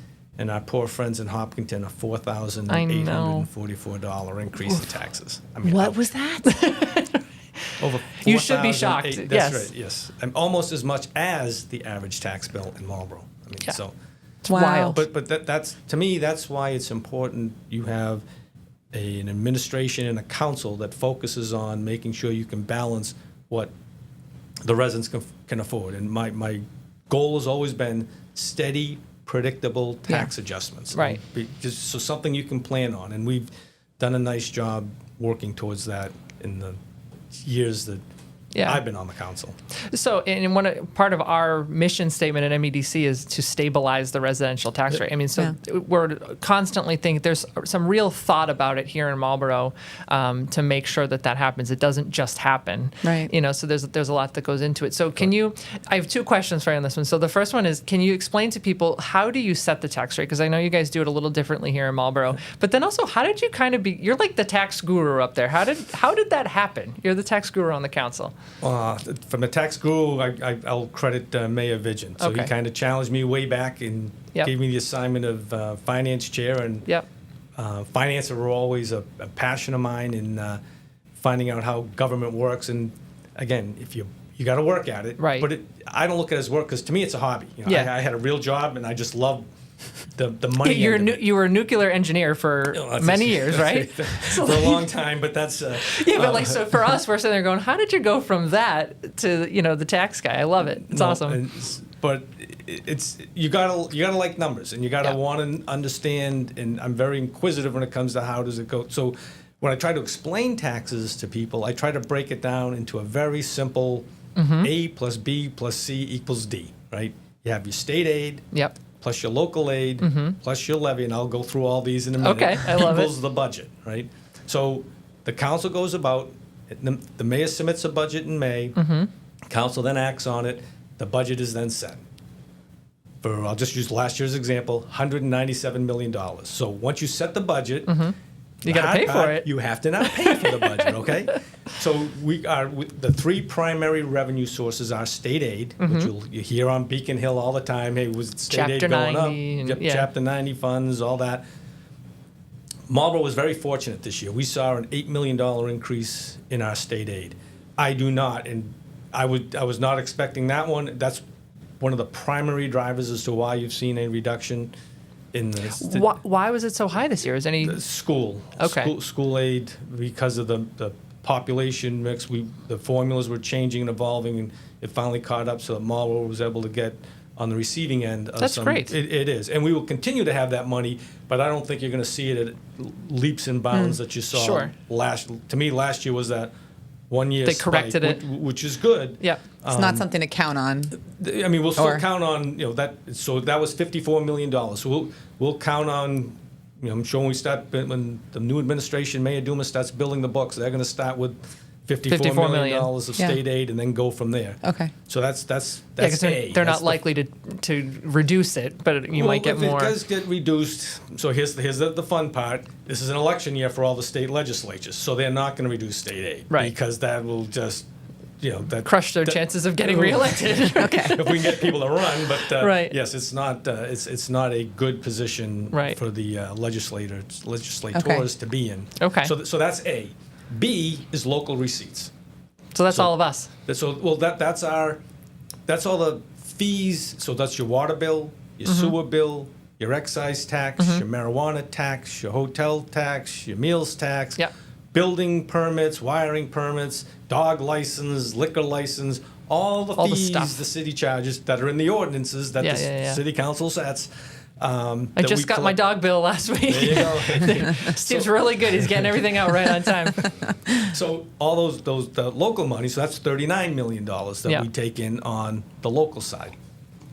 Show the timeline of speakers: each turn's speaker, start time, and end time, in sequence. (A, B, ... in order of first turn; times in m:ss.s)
0:00.4-0:06.0 A
0:02.7-0:03.5 B
0:05.6-0:06.5 C
0:06.4-0:09.7 B
0:07.8-0:13.9 A
0:14.4-0:15.0 B
0:14.5-0:15.0 C
0:14.6-0:18.2 A
0:18.9-0:23.7 A
0:24.6-0:36.8 A
0:30.9-0:31.2 B
0:37.3-0:38.0 A
0:38.5-0:38.8 B
0:38.6-0:39.6 A
0:39.9-1:08.3 B
0:53.0-0:53.3 C
1:08.6-1:16.9 A
1:12.2-1:12.5 B
1:17.6-1:20.6 A
1:21.2-1:29.4 A
1:25.2-1:25.5 B
1:30.1-1:31.3 A
1:30.6-1:34.9 B
1:32.7-1:36.8 A
1:35.8-1:41.4 B
1:40.8-1:54.1 A
1:54.4-1:54.7 B
1:54.6-1:58.4 A
1:59.0-2:08.8 A
2:00.0-2:00.4 B
2:02.2-2:03.1 B
2:08.8-2:09.1 B
2:09.5-2:12.0 A
2:13.2-2:18.0 A
2:17.9-2:19.5 B
2:18.6-2:31.4 A
2:20.0-2:20.9 B
2:25.8-2:26.1 B
2:28.5-2:30.1 B
2:32.9-2:41.2 A
2:41.8-2:44.7 A
2:45.3-2:46.1 A
2:45.8-2:47.8 B
2:47.6-3:06.5 A
2:48.6-2:48.9 B
2:58.4-2:58.9 B
3:03.7-3:04.0 C
3:04.3-3:04.7 B
3:07.1-3:10.1 A
3:07.4-3:08.2 B
3:09.7-3:11.0 C
3:10.9-3:27.0 A
3:11.8-3:12.0 C
3:22.1-3:22.9 B
3:24.6-3:24.9 C
3:26.0-3:29.9 B
3:29.1-3:37.9 A
3:38.4-3:52.1 A
3:38.8-3:41.5 B
3:40.7-3:41.2 C
3:42.4-3:43.0 B
3:45.7-3:46.0 B
3:47.9-3:48.2 C
3:49.0-3:49.3 B
3:52.7-3:53.5 B
3:52.9-3:55.0 A
3:55.7-4:15.9 A
3:58.6-3:58.9 B
4:00.8-4:01.0 B
4:10.0-4:10.6 B
4:12.6-4:13.2 B
4:15.2-4:20.3 B
4:16.7-4:19.0 A
4:20.7-4:26.6 A